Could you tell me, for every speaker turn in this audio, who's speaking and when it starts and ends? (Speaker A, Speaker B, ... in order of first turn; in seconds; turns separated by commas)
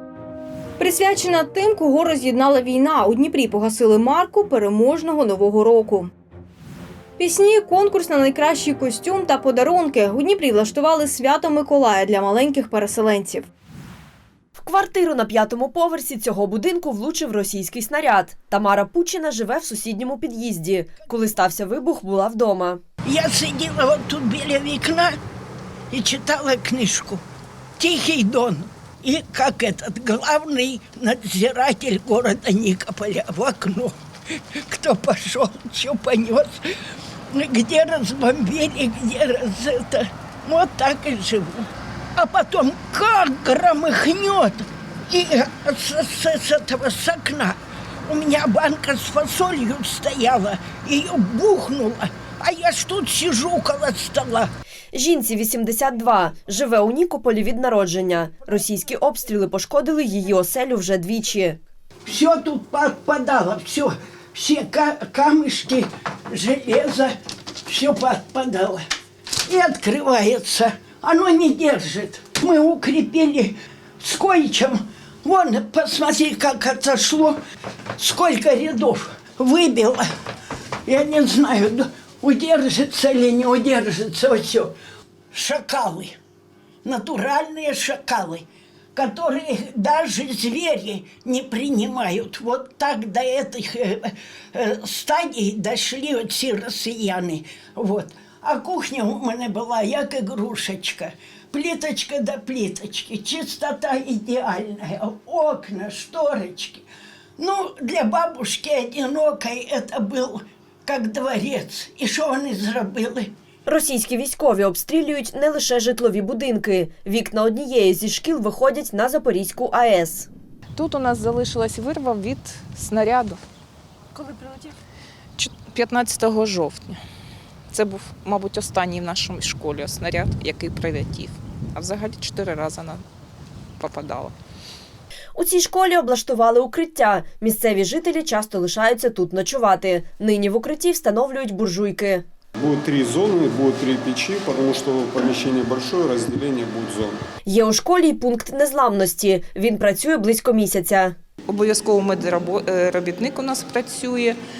Speaker A: 0.8-6.1, Speaker A: 7.2-13.5, Speaker B: 14.6-22.8, Speaker C: 23.1-25.2, Speaker C: 25.9-27.2, Speaker C: 27.8-34.0, Speaker C: 34.7-36.6, Speaker C: 37.3-54.5, Speaker B: 54.9-61.6, Speaker C: 62.1-67.1, Speaker C: 67.7-68.8, Speaker C: 69.5-77.4, Speaker C: 78.0-80.1, Speaker C: 80.9-84.7, Speaker C: 85.3-86.2, Speaker C: 86.8-106.8, Speaker C: 107.4-113.3, Speaker B: 113.7-120.3, Speaker D: 120.8-123.4, Speaker D: 124.2-124.7, Speaker D: 125.4-127.0, Speaker D: 127.7-133.0, Speaker D: 133.8-134.3, Speaker B: 135.3-142.3, Speaker E: 142.6-147.1, Speaker B: 147.5-151.2, Speaker D: 151.5-154.4